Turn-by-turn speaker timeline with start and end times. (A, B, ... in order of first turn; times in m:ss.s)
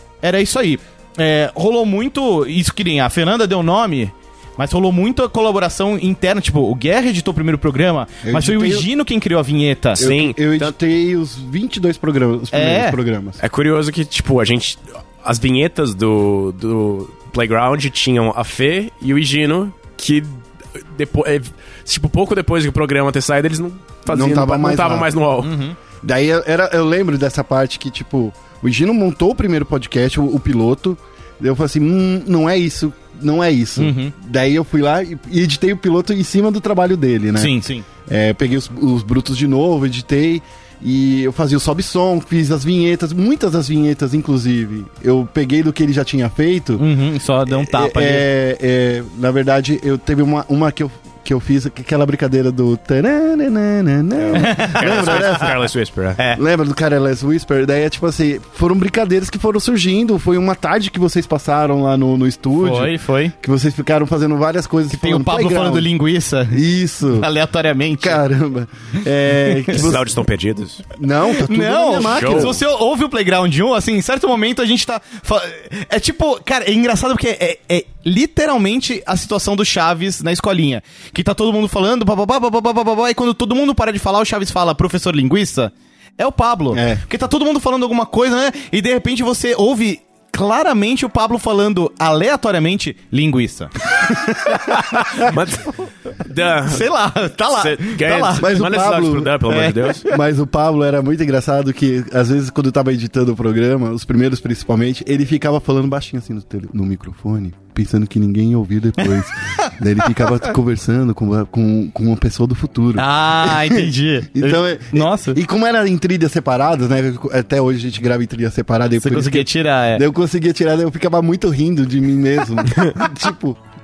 0:00.2-0:10.1 A
0:08.2-0:08.9 B
0:10.0-0:13.4 B
0:10.0-0:10.7 C
0:12.5-0:13.0 A
0:13.4-0:25.6 C
0:24.1-0:25.1 B
0:25.4-0:25.8 A
0:26.0-0:46.9 B
0:33.8-0:34.1 A
0:37.4-0:37.8 A
0:46.8-0:48.3 A
0:47.5-0:55.6 B
0:54.2-0:56.2 C
0:54.3-0:55.5 A
0:56.3-1:05.9 B
1:02.6-1:03.3 A
1:04.9-1:08.2 A
1:06.5-1:07.3 B
1:08.0-1:10.2 B
1:09.5-1:09.8 A
1:09.7-1:10.8 C
1:10.9-1:12.6 B
1:11.3-1:33.7 A
1:12.0-1:12.6 C
1:26.7-1:27.0 B
1:34.0-1:34.8 B
1:34.6-1:35.3 A
1:34.6-1:36.9 C
1:36.7-1:38.5 A
1:37.5-1:40.0 C
1:38.4-1:39.4 B
1:39.5-1:40.1 A
1:40.1-2:03.6 B
1:53.0-1:55.4 A
1:59.0-2:00.0 A